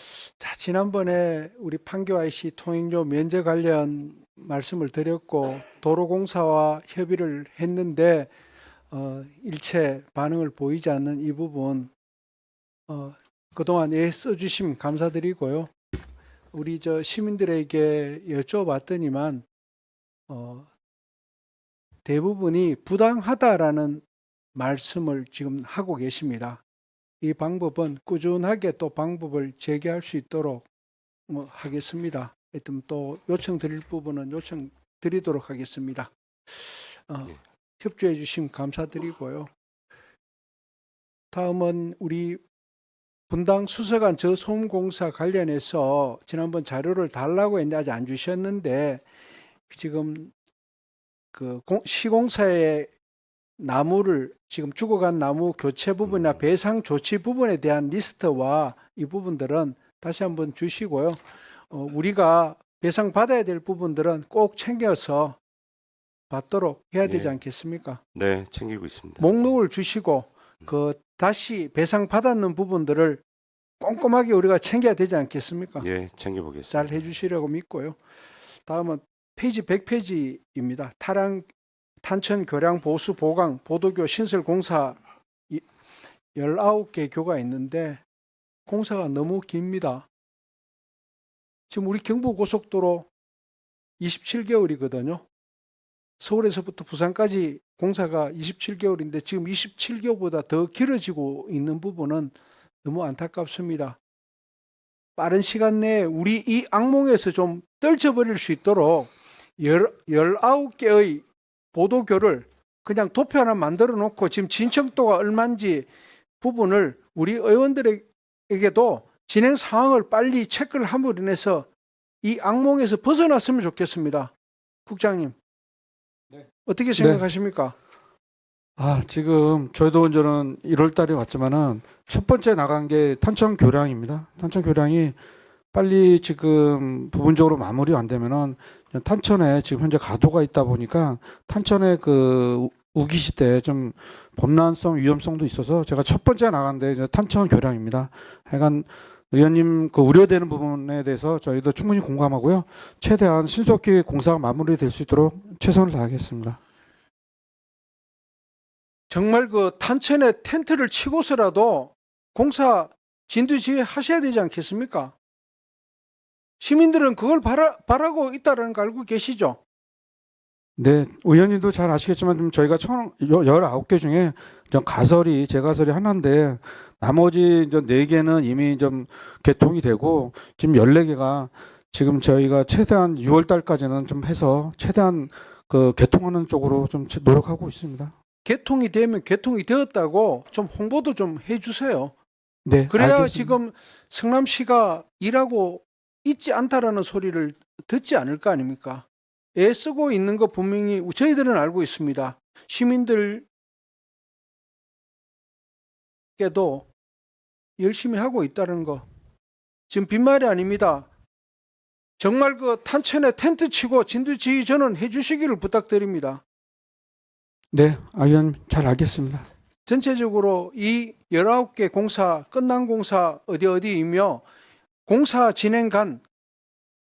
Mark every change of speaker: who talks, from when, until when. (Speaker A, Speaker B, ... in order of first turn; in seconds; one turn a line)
Speaker A: 0.4-8.3
Speaker A: 8.9-11.9
Speaker A: 12.9-15.7
Speaker A: 16.5-19.4
Speaker A: 20.3-20.7
Speaker A: 22.0-26.6
Speaker A: 27.2-30.6
Speaker A: 31.3-36.1
Speaker A: 37.1-39.5
Speaker A: 41.3-42.4
Speaker A: 43.3-49.0
Speaker A: 49.7-50.3
Speaker A: 51.3-52.9
Speaker A: 53.6-65.4
Speaker A: 66.3-68.0
Speaker B: 67.0-67.3
Speaker B: 68.1-69.3
Speaker A: 69.2-73.2
Speaker A: 73.8-75.9
Speaker B: 75.8-76.9
Speaker A: 76.7-78.0
Speaker A: 78.7-81.5
Speaker A: 82.0-85.0
Speaker A: 86.3-88.0
Speaker A: 88.7-90.1
Speaker A: 91.7-93.1
Speaker A: 94.0-95.2
Speaker A: 96.2-104.0
Speaker A: 105.2-115.9
Speaker A: 116.4-121.7
Speaker A: 122.2-124.3
Speaker A: 124.8-125.3
Speaker A: 126.6-127.7
Speaker C: 127.0-127.2
Speaker C: 128.8-135.2
Speaker C: 135.7-156.6
Speaker A: 159.1-165.1
Speaker A: 166.6-169.6
Speaker C: 170.8-188.1
Speaker A: 188.4-192.1
Speaker C: 192.6-193.6
Speaker A: 192.9-199.0
Speaker A: 199.6-203.4
Speaker A: 206.4-206.9
Speaker A: 207.8-209.0
Speaker A: 209.9-211.1
Speaker A: 212.2-216.4
Speaker C: 217.7-219.4
Speaker A: 219.8-224.4
Speaker A: 225.1-226.2